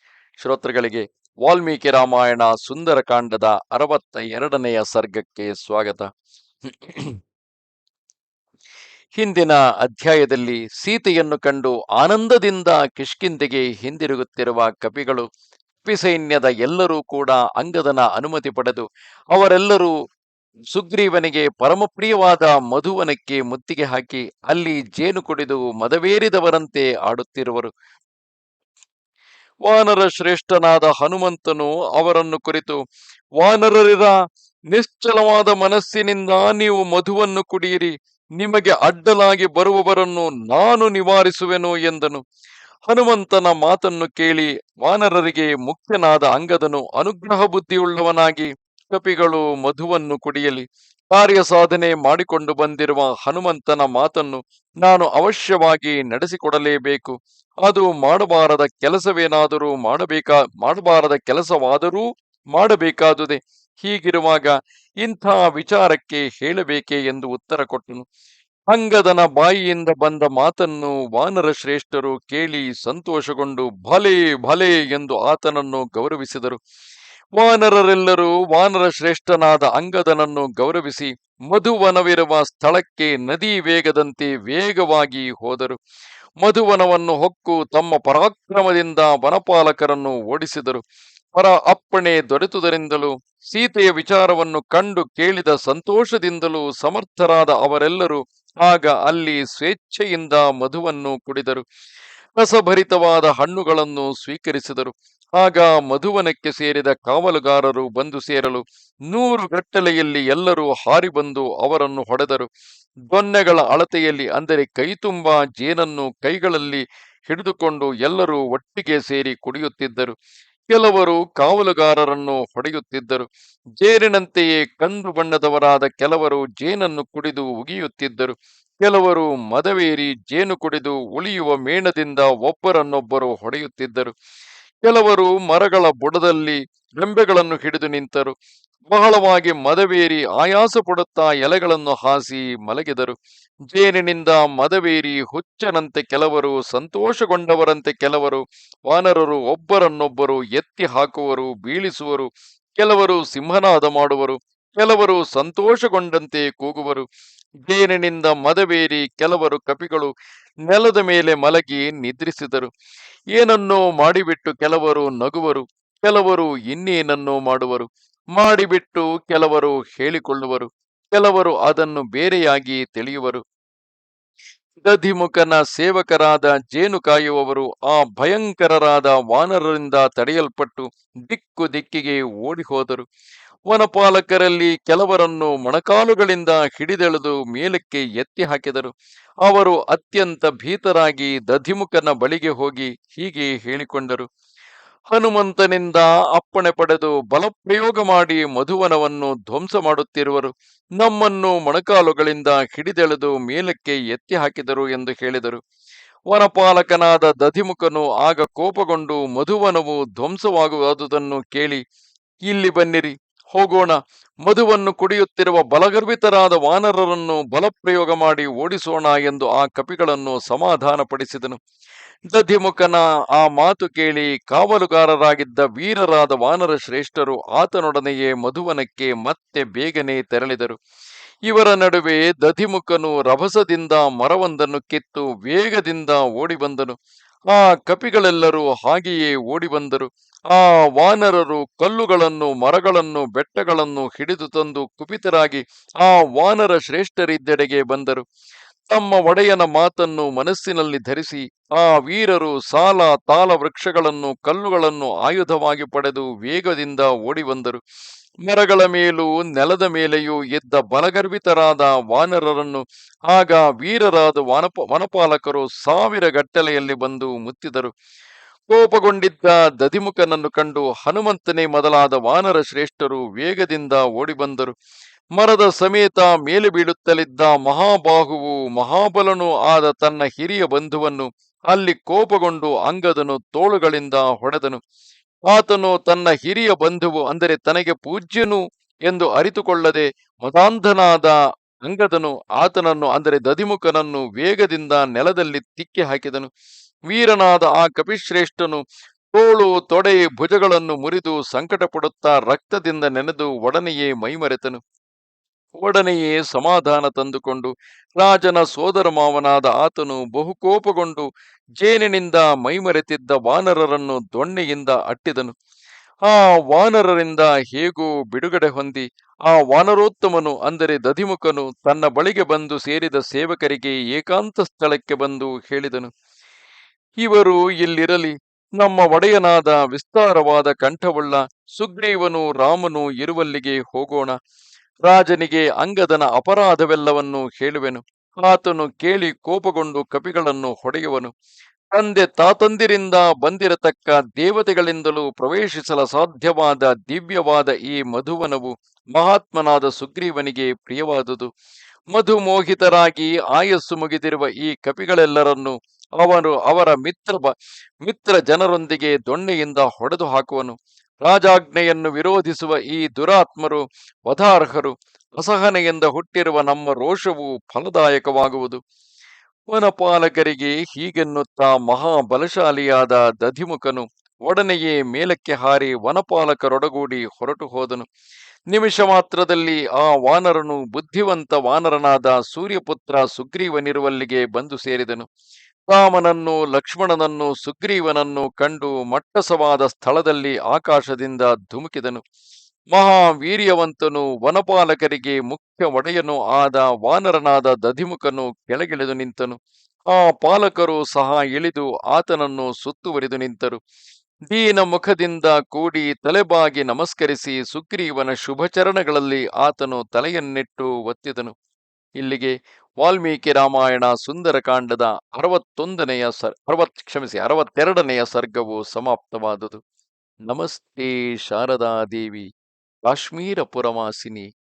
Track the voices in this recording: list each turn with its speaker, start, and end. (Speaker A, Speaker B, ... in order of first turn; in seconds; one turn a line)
Speaker A: 0.4-6.1
Speaker A: 6.7-7.2
Speaker A: 9.2-15.2
Speaker A: 15.8-19.9
Speaker A: 20.7-27.7
Speaker A: 29.6-32.8
Speaker A: 33.4-34.1
Speaker A: 34.7-42.2
Speaker A: 42.9-68.0
Speaker A: 68.7-76.6
Speaker A: 77.3-85.8
Speaker A: 86.4-90.8
Speaker A: 91.3-101.6
Speaker A: 102.4-112.5
Speaker A: 113.1-120.1
Speaker A: 120.7-123.2
Speaker A: 123.8-134.1
Speaker A: 134.8-138.3
Speaker A: 138.9-143.2
Speaker A: 143.7-157.1
Speaker A: 157.7-160.1
Speaker A: 160.7-162.7
Speaker A: 163.3-173.4
Speaker A: 174.8-183.0
Speaker A: 183.7-188.9
Speaker A: 189.4-194.2
Speaker A: 195.1-205.6
Speaker A: 206.3-211.8
Speaker A: 212.5-221.6
Speaker A: 222.3-230.8
Speaker A: 231.5-236.9
Speaker A: 237.5-248.2
Speaker A: 248.9-257.8
Speaker A: 258.4-267.9
Speaker A: 268.7-274.7
Speaker A: 275.4-284.8
Speaker A: 285.5-296.5
Speaker A: 297.1-298.8
Speaker A: 299.3-304.8
Speaker A: 305.8-311.2
Speaker A: 311.8-315.5
Speaker A: 316.2-326.1
Speaker A: 327.2-334.4
Speaker A: 335.0-341.3
Speaker A: 341.9-351.5
Speaker A: 352.1-368.8
Speaker A: 369.7-378.0
Speaker A: 378.7-385.3
Speaker A: 385.9-392.2
Speaker A: 392.9-399.6
Speaker A: 400.1-403.8
Speaker A: 404.5-411.5
Speaker A: 412.2-419.8
Speaker A: 420.5-422.4
Speaker A: 423.0-424.5